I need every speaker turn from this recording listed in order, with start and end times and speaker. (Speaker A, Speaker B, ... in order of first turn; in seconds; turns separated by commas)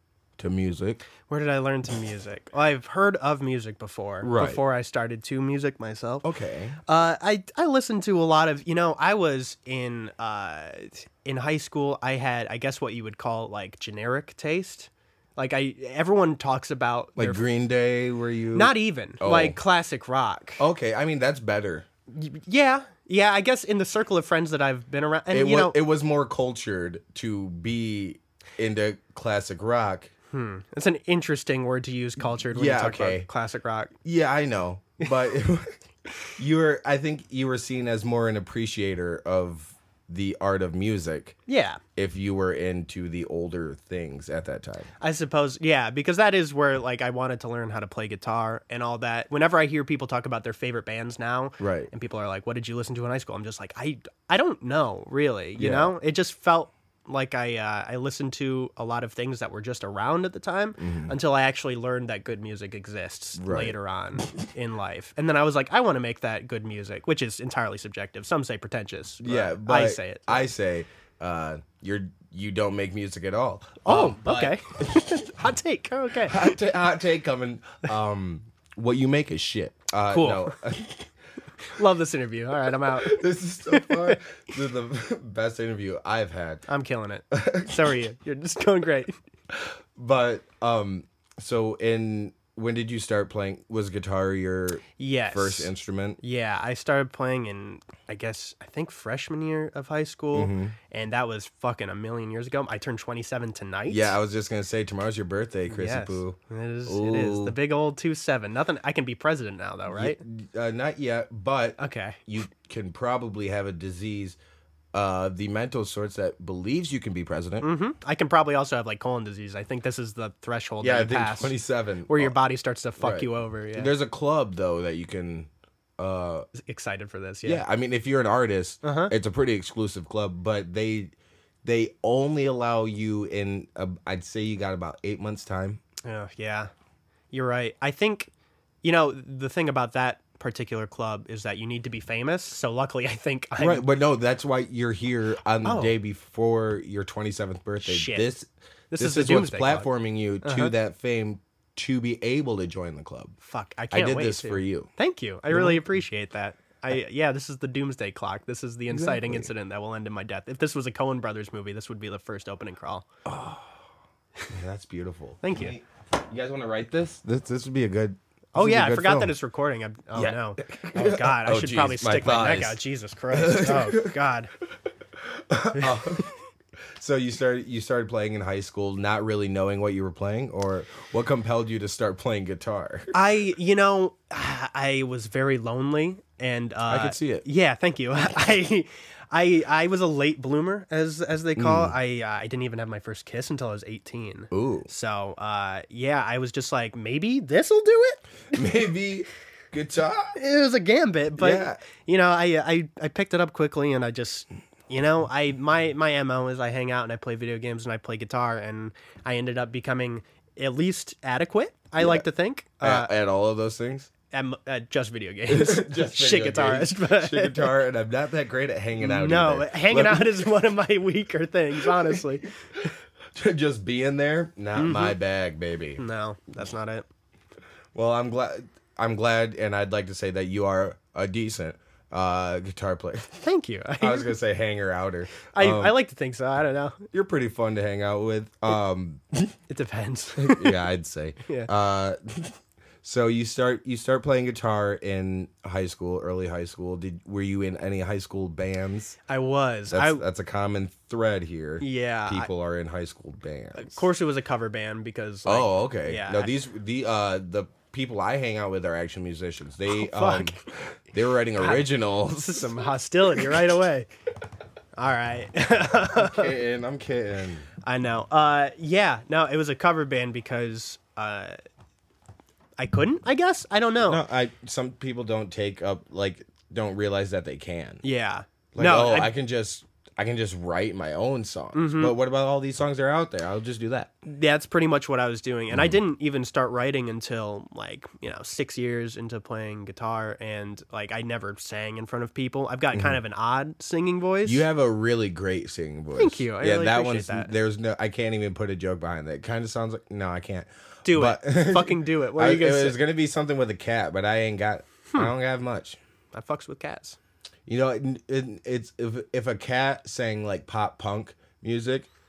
Speaker A: 0.4-1.0, Speaker B: 1.2-6.3, Speaker A: 4.2-4.6, Speaker A: 6.2-6.8, Speaker B: 6.8-17.4, Speaker A: 17.2-19.6, Speaker B: 18.5-20.6, Speaker A: 20.6-21.9, Speaker B: 22.1-25.8, Speaker A: 25.3-30.1, Speaker B: 30.3-33.9, Speaker A: 32.3-33.3, Speaker A: 34.0-35.8, Speaker A: 36.4-41.4, Speaker B: 41.5-41.8, Speaker A: 42.0-44.9, Speaker B: 45.0-70.5, Speaker A: 51.6-51.9, Speaker A: 55.5-55.9, Speaker A: 60.8-61.2, Speaker A: 63.4-64.3, Speaker A: 69.2-74.6, Speaker B: 73.8-76.5, Speaker A: 76.2-81.1, Speaker B: 80.1-80.6, Speaker B: 81.6-83.2, Speaker A: 82.9-86.6, Speaker B: 83.7-84.2, Speaker B: 86.7-89.1, Speaker A: 87.3-87.9, Speaker A: 89.5-96.2, Speaker B: 95.0-104.1, Speaker A: 100.3-100.8, Speaker A: 103.9-107.6, Speaker B: 105.7-110.2, Speaker A: 109.9-114.4, Speaker B: 111.8-112.2, Speaker A: 114.9-117.7, Speaker B: 117.6-123.9, Speaker A: 120.8-122.3, Speaker A: 123.0-126.5, Speaker B: 126.5-127.6, Speaker A: 127.4-135.8, Speaker B: 128.8-129.1, Speaker B: 136.0-136.7, Speaker B: 137.3-138.3, Speaker B: 138.8-143.8, Speaker A: 143.6-153.3, Speaker B: 145.6-145.9, Speaker B: 147.8-148.3, Speaker B: 148.9-149.9, Speaker B: 150.4-150.7, Speaker B: 153.4-163.1, Speaker A: 153.9-154.9, Speaker A: 155.5-155.8, Speaker A: 158.9-159.5, Speaker A: 163.2-163.8, Speaker A: 164.5-169.3, Speaker B: 165.4-165.8, Speaker B: 168.5-174.5, Speaker A: 170.1-174.2, Speaker A: 175.2-176.3, Speaker B: 175.8-176.2, Speaker A: 177.0-183.1, Speaker B: 183.1-198.2, Speaker A: 186.9-187.4, Speaker A: 191.6-191.9, Speaker A: 194.5-194.9, Speaker A: 198.5-200.3, Speaker B: 200.3-213.1, Speaker A: 201.4-201.8, Speaker A: 212.0-212.2, Speaker A: 212.8-214.1, Speaker B: 214.3-217.7, Speaker A: 215.5-220.5, Speaker B: 219.0-222.5, Speaker A: 221.8-222.8, Speaker A: 223.3-226.0, Speaker B: 224.8-225.2, Speaker B: 226.0-227.0, Speaker A: 227.9-233.4, Speaker B: 233.4-234.3, Speaker A: 234.0-236.0, Speaker B: 235.5-237.0, Speaker A: 237.1-239.5, Speaker B: 239.7-240.8, Speaker A: 240.3-249.2, Speaker B: 249.3-250.2, Speaker A: 249.9-254.0, Speaker B: 251.8-252.5, Speaker B: 253.7-256.5, Speaker A: 255.4-262.7, Speaker B: 259.9-260.6, Speaker B: 261.6-264.1, Speaker B: 264.9-266.5, Speaker A: 266.1-267.7, Speaker B: 267.8-271.6, Speaker B: 272.8-274.2, Speaker A: 274.0-278.0, Speaker B: 278.0-279.3, Speaker A: 278.7-284.1, Speaker B: 281.7-282.1, Speaker B: 284.2-294.6, Speaker A: 285.7-286.0, Speaker A: 292.9-293.2, Speaker A: 294.4-306.0, Speaker B: 296.1-297.5, Speaker B: 301.0-303.0, Speaker B: 306.3-307.2, Speaker A: 307.7-312.1